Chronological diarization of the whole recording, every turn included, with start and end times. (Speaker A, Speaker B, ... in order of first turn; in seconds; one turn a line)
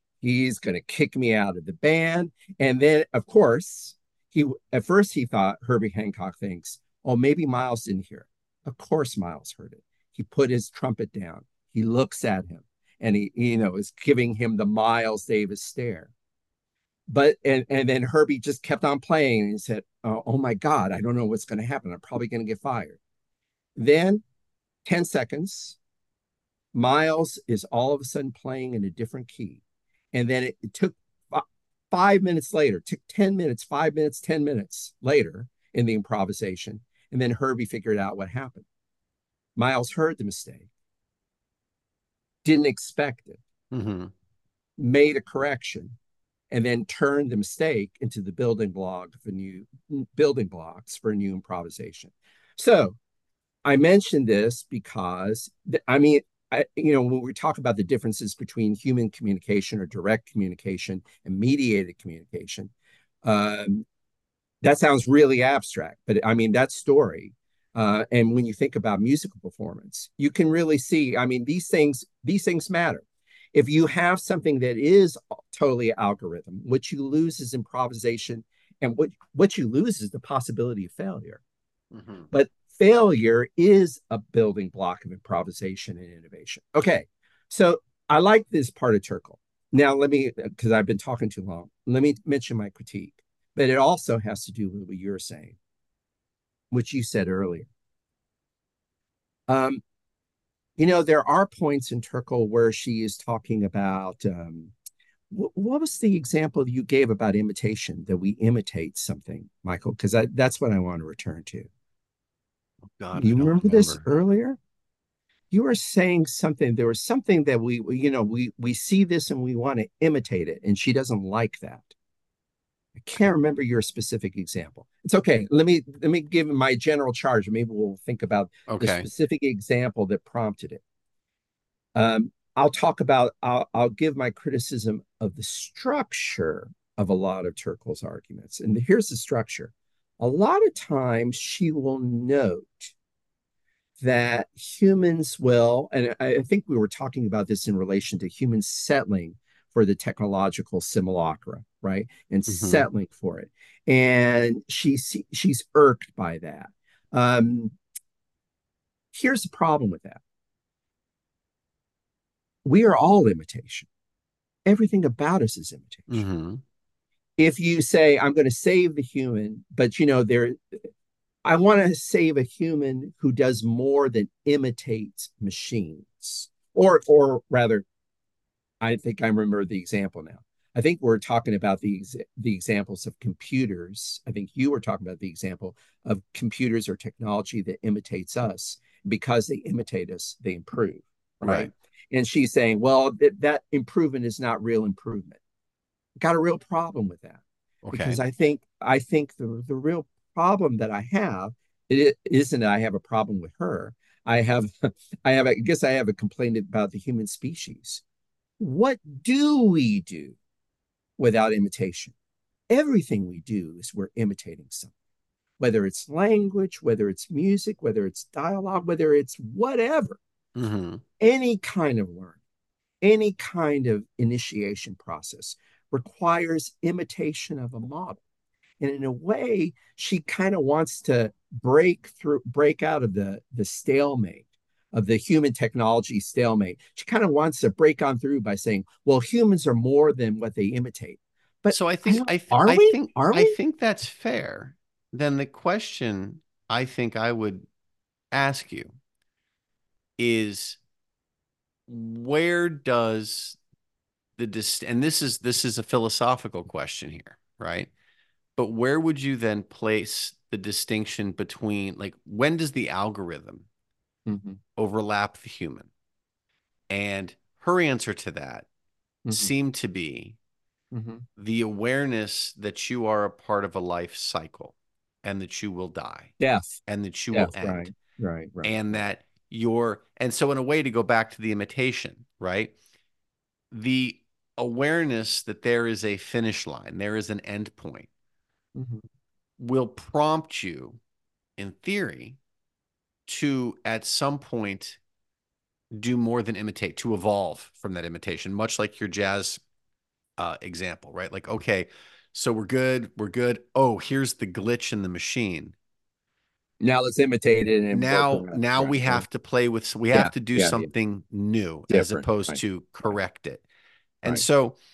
Speaker A: 0.2-16.1
Speaker A: 17.1-23.0
Speaker A: 23.8-24.2
Speaker A: 24.8-25.8
Speaker A: 26.7-29.6
Speaker A: 30.1-38.6
Speaker A: 39.5-40.7
Speaker A: 42.4-43.4
Speaker B: 43.7-44.1
Speaker A: 44.8-46.0
Speaker A: 46.5-53.0
Speaker A: 53.6-62.7
Speaker A: 63.2-63.8
Speaker A: 64.6-81.4
Speaker B: 81.9-82.3
Speaker A: 82.3-95.6
Speaker A: 96.7-97.7
Speaker A: 99.5-99.8
Speaker A: 100.8-104.7
Speaker A: 105.3-111.7
Speaker B: 112.9-114.0
Speaker A: 113.1-114.6
Speaker A: 115.5-121.9
Speaker A: 123.0-130.8
Speaker B: 128.7-129.1
Speaker A: 131.9-142.9
Speaker A: 144.0-157.8
Speaker B: 152.5-152.9
Speaker A: 159.1-160.2
Speaker A: 162.6-163.9
Speaker A: 164.7-166.2
Speaker B: 166.1-166.6
Speaker A: 167.4-170.8
Speaker A: 171.4-177.8
Speaker A: 178.8-195.4
Speaker B: 191.4-191.7
Speaker A: 196.2-208.0
Speaker B: 197.8-198.2
Speaker A: 208.6-210.3
Speaker A: 211.2-212.1
Speaker A: 212.7-214.9
Speaker A: 215.6-220.2
Speaker B: 220.6-221.0
Speaker A: 221.2-222.4
Speaker A: 223.0-228.2
Speaker A: 228.8-243.6
Speaker B: 241.7-247.7
Speaker B: 248.3-248.9
Speaker B: 250.2-250.8
Speaker B: 251.9-253.6
Speaker B: 254.4-257.9
Speaker B: 258.6-263.6
Speaker A: 264.2-264.6
Speaker B: 264.8-265.9
Speaker B: 266.9-268.7
Speaker A: 269.2-269.5
Speaker B: 269.3-270.4
Speaker A: 270.9-271.2
Speaker B: 271.4-276.3
Speaker A: 276.4-276.8
Speaker B: 276.9-277.9
Speaker A: 277.3-279.0
Speaker B: 278.6-282.7
Speaker B: 283.7-288.1
Speaker A: 288.7-289.0
Speaker B: 289.6-291.0
Speaker B: 291.6-292.4
Speaker B: 293.3-295.0
Speaker B: 295.9-299.6
Speaker B: 300.4-305.7
Speaker A: 306.8-309.2
Speaker B: 307.9-313.6
Speaker A: 310.1-310.9
Speaker A: 311.9-312.6
Speaker B: 314.2-314.8